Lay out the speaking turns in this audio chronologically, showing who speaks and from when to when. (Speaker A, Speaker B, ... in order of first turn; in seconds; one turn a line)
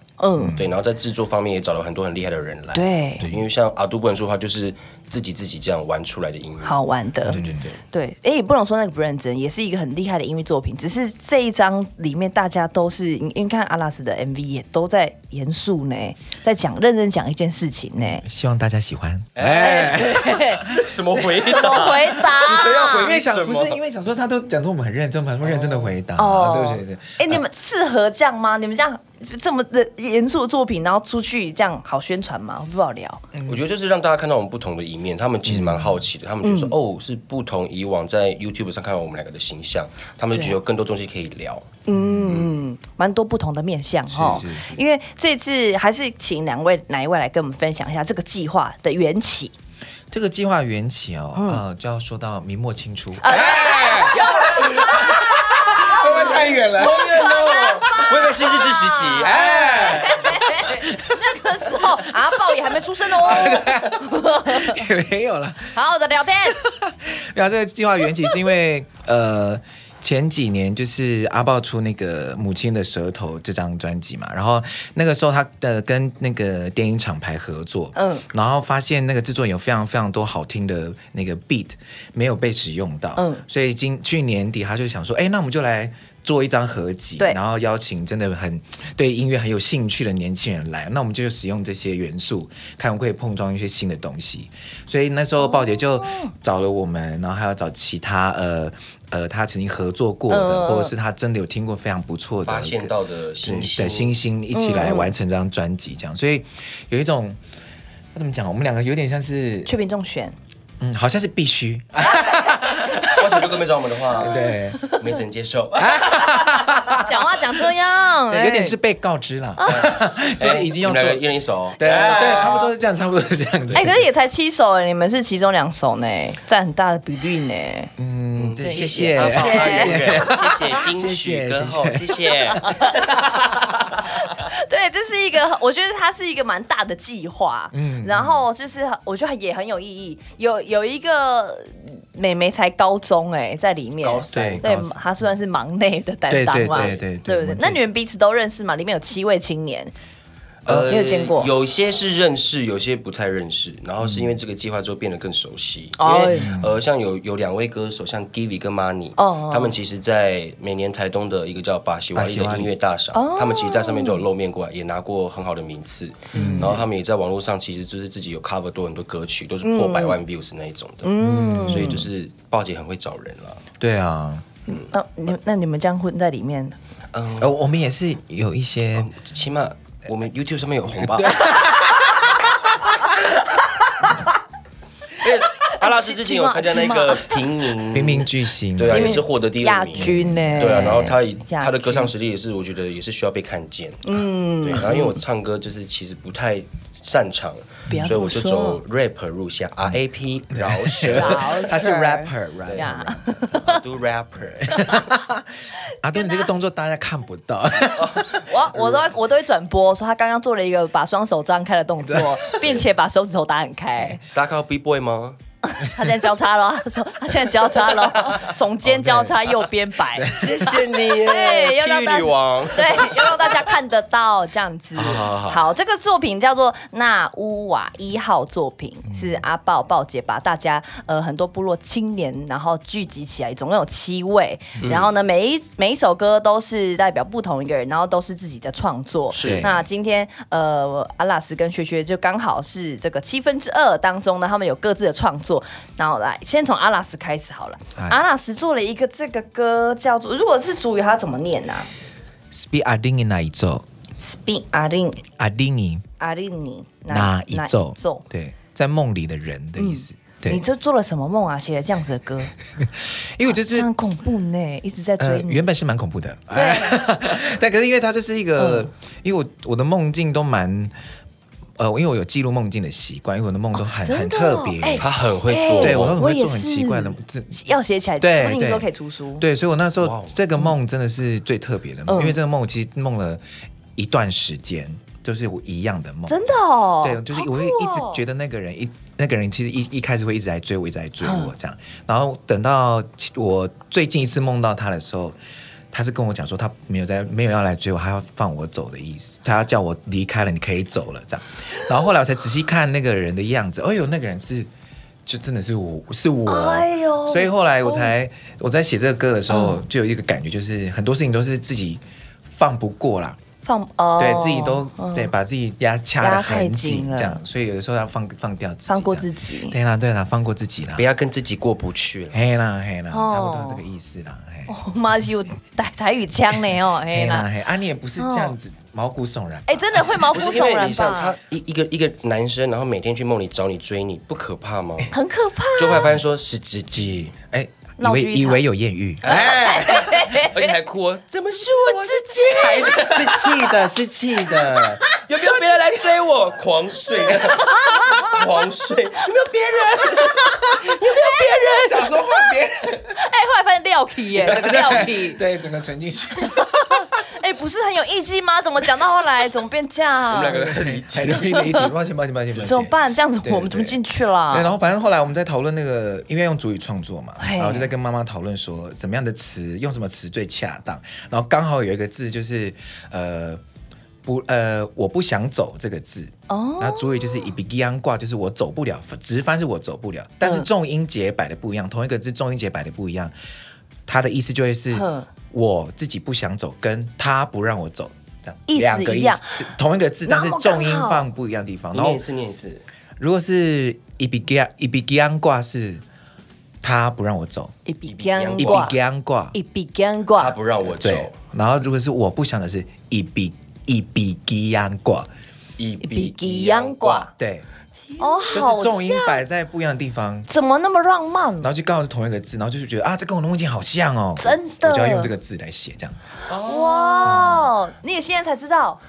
Speaker A: 0.2-0.6
Speaker B: 0.4-0.7
Speaker C: 0.5-6.8
Speaker A: 2.7-3.3
Speaker A: 6.6-18.2
Speaker B: 7.3-7.8
Speaker C: 7.3-7.6
Speaker B: 18.0-20.6
Speaker C: 19.4-23.8
Speaker A: 19.6-23.1
Speaker B: 22.9-27.4
Speaker C: 25.4-26.0
Speaker A: 26.2-33.2
Speaker B: 33.3-33.6
Speaker C: 33.5-41.7
Speaker B: 35.5-36.0
Speaker A: 36.4-36.8
Speaker A: 40.3-40.6
Speaker A: 41.9-49.5
Speaker B: 41.9-42.5
Speaker B: 44.1-44.8
Speaker B: 50.1-58.3
Speaker A: 51.4-51.6
Speaker A: 53.2-64.8
Speaker C: 56.0-60.1
Speaker B: 59.2-65.8
Speaker A: 65.7-66.6
Speaker B: 66.5-107.4
Speaker A: 78.0-78.2
Speaker A: 83.2-83.4
Speaker A: 95.4-96.3
Speaker A: 100.3-100.9
Speaker C: 102.5-104.2
Speaker A: 104.5-105.1
Speaker B: 108.2-109.7
Speaker A: 109.7-110.4
Speaker B: 110.8-113.6
Speaker C: 113.0-116.0
Speaker B: 114.1-115.0
Speaker A: 114.2-114.8
Speaker B: 115.8-117.3
Speaker A: 116.9-118.8
Speaker B: 118.3-121.2
Speaker A: 119.6-119.9
Speaker C: 119.6-122.7
Speaker B: 121.8-124.0
Speaker A: 123.7-127.9
Speaker B: 128.0-133.6
Speaker C: 128.3-132.7
Speaker A: 128.6-130.1
Speaker A: 132.7-149.9
Speaker B: 137.7-138.4
Speaker C: 144.0-144.7
Speaker B: 144.3-145.1
Speaker B: 146.3-147.8
Speaker C: 146.8-147.0
Speaker C: 150.7-173.6
Speaker B: 150.7-150.9
Speaker A: 150.9-151.5
Speaker B: 154.0-154.4
Speaker A: 156.0-156.6
Speaker B: 156.3-156.8
Speaker A: 159.2-159.8
Speaker B: 162.2-162.7
Speaker A: 163.1-164.2
Speaker A: 166.2-166.8
Speaker B: 166.3-166.8
Speaker A: 169.6-170.2
Speaker A: 171.0-172.0
Speaker B: 171.2-172.1
Speaker B: 173.8-174.5
Speaker A: 174.7-176.8
Speaker C: 177.1-177.6
Speaker B: 177.4-179.1
Speaker C: 179.0-181.7
Speaker B: 180.9-182.9
Speaker C: 185.2-201.8
Speaker A: 185.7-187.4
Speaker B: 187.9-189.2
Speaker A: 188.9-192.1
Speaker B: 189.9-191.1
Speaker A: 194.0-195.1
Speaker B: 197.9-198.1
Speaker A: 197.9-198.8
Speaker B: 200.5-203.8
Speaker A: 201.2-203.8
Speaker C: 202.7-203.0
Speaker C: 203.7-204.9
Speaker B: 204.6-205.5
Speaker A: 204.8-205.1
Speaker B: 206.0-208.5
Speaker A: 206.1-206.5
Speaker C: 208.0-208.3
Speaker A: 208.3-214.2
Speaker B: 212.0-212.7
Speaker C: 214.3-215.4
Speaker A: 215.6-251.9
Speaker B: 218.3-220.8
Speaker C: 220.4-223.7
Speaker C: 225.0-225.7
Speaker B: 229.1-229.4
Speaker C: 234.8-235.1
Speaker C: 239.3-239.8
Speaker B: 239.4-239.8
Speaker B: 252.5-253.8
Speaker A: 254.2-255.2
Speaker B: 255.4-256.0
Speaker A: 256.2-258.2
Speaker B: 257.1-260.6
Speaker A: 259.8-262.5
Speaker B: 262.8-263.9
Speaker A: 263.4-265.6
Speaker B: 265.2-270.9
Speaker A: 266.5-267.0
Speaker A: 268.6-268.9
Speaker B: 271.8-275.1
Speaker A: 273.8-279.5
Speaker C: 275.0-276.2
Speaker B: 275.8-277.6
Speaker B: 278.2-278.9
Speaker B: 279.4-283.4
Speaker C: 280.0-280.4
Speaker A: 282.1-282.4
Speaker B: 284.0-295.4
Speaker A: 286.3-288.2
Speaker A: 291.2-291.5
Speaker B: 295.9-304.7
Speaker B: 305.3-313.4
Speaker A: 306.5-308.1
Speaker A: 309.5-309.8
Speaker A: 313.6-315.3
Speaker B: 314.2-321.1
Speaker A: 316.2-317.4
Speaker A: 318.9-319.8
Speaker C: 320.9-322.4
Speaker B: 322.3-324.7
Speaker A: 323.1-323.8
Speaker A: 324.7-327.5
Speaker B: 327.1-330.3
Speaker A: 328.2-328.6
Speaker A: 329.7-331.4
Speaker C: 330.3-335.1
Speaker A: 335.1-336.1
Speaker C: 335.8-337.3
Speaker B: 335.9-336.2
Speaker B: 336.9-340.4
Speaker A: 338.0-338.6
Speaker C: 339.2-339.9
Speaker A: 339.3-340.8
Speaker C: 340.5-343.8
Speaker A: 341.9-342.9
Speaker B: 342.4-345.0
Speaker C: 345.2-350.1
Speaker A: 347.3-348.3
Speaker A: 349.3-355.4
Speaker B: 350.9-353.2
Speaker B: 354.3-356.9
Speaker A: 356.6-361.9
Speaker C: 360.3-361.4
Speaker B: 360.7-373.6
Speaker A: 362.6-364.7
Speaker A: 367.4-367.9
Speaker B: 374.2-383.4
Speaker A: 376.5-377.5
Speaker B: 384.1-392.2
Speaker A: 384.9-385.3
Speaker A: 388.7-389.7
Speaker A: 390.2-391.3
Speaker C: 391.9-392.8
Speaker B: 393.2-396.0
Speaker B: 396.8-397.7
Speaker A: 397.9-399.0
Speaker C: 398.1-398.9
Speaker B: 398.6-399.6
Speaker A: 399.5-400.6
Speaker C: 400.4-401.4
Speaker B: 401.0-405.3
Speaker C: 405.8-407.3
Speaker A: 406.0-407.3
Speaker B: 407.4-407.7
Speaker C: 408.1-408.5
Speaker A: 408.2-409.4
Speaker B: 408.5-410.5
Speaker A: 410.5-411.7
Speaker B: 411.6-416.2
Speaker A: 414.4-415.3
Speaker C: 416.5-417.6
Speaker A: 416.5-419.0
Speaker B: 417.3-417.6